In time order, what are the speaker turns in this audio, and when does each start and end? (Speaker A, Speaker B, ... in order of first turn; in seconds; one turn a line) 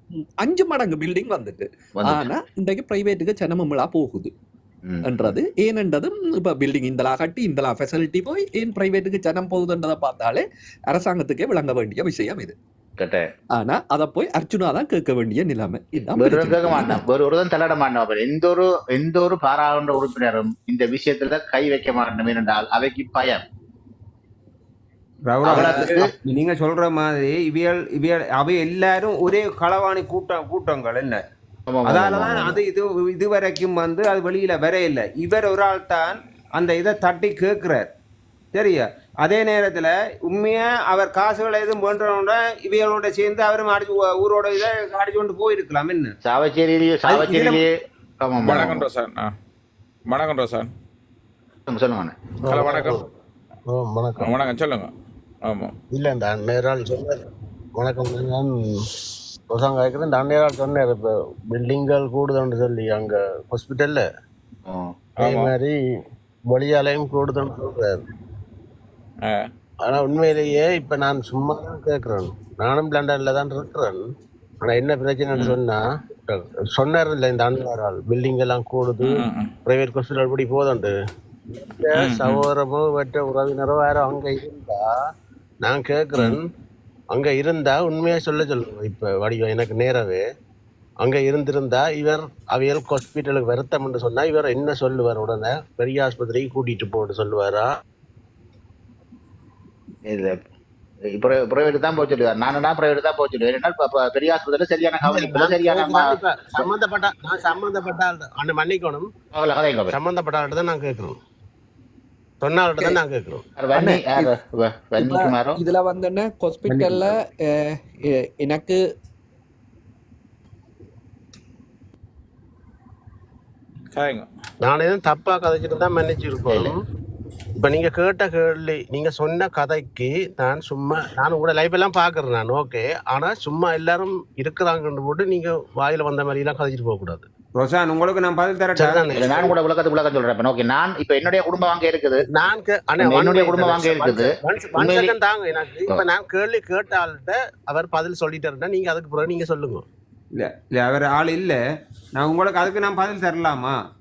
Speaker A: 0.4-4.3
Speaker B: 2.0-2.3
Speaker B: 4.8-5.3
Speaker A: 5.0-12.5
Speaker B: 13.0-13.3
Speaker A: 13.6-17.0
Speaker B: 16.2-23.4
Speaker C: 25.3-31.2
Speaker B: 25.4-26.1
Speaker A: 25.5-26.0
Speaker B: 31.7-32.6
Speaker C: 32.2-37.9
Speaker C: 38.5-46.1
Speaker B: 46.2-48.9
Speaker D: 48.4-49.3
Speaker D: 50.1-50.7
Speaker B: 51.7-52.1
Speaker E: 52.4-53.0
Speaker D: 52.5-53.0
Speaker E: 53.7-54.3
Speaker D: 54.2-54.9
Speaker D: 55.4-55.7
Speaker E: 55.9-57.2
Speaker E: 57.8-58.9
Speaker E: 59.5-64.0
Speaker E: 65.2-65.8
Speaker D: 65.2-65.5
Speaker E: 66.5-68.0
Speaker E: 69.8-74.0
Speaker E: 74.6-80.9
Speaker D: 75.3-75.6
Speaker D: 79.0-79.5
Speaker E: 81.6-84.8
Speaker D: 81.9-82.5
Speaker E: 85.6-86.5
Speaker E: 87.1-90.2
Speaker E: 91.0-97.7
Speaker B: 100.1-100.4
Speaker B: 101.1-106.7
Speaker E: 105.0-109.1
Speaker B: 109.3-110.0
Speaker E: 109.9-111.1
Speaker E: 112.4-113.4
Speaker B: 113.6-115.6
Speaker A: 113.7-114.3
Speaker A: 115.0-118.8
Speaker D: 123.9-124.2
Speaker E: 124.6-126.8
Speaker E: 127.6-137.2
Speaker C: 137.6-139.1
Speaker E: 138.7-139.5
Speaker B: 139.1-142.2
Speaker E: 142.3-149.8
Speaker B: 143.0-145.1
Speaker C: 150.3-151.6
Speaker C: 152.2-153.7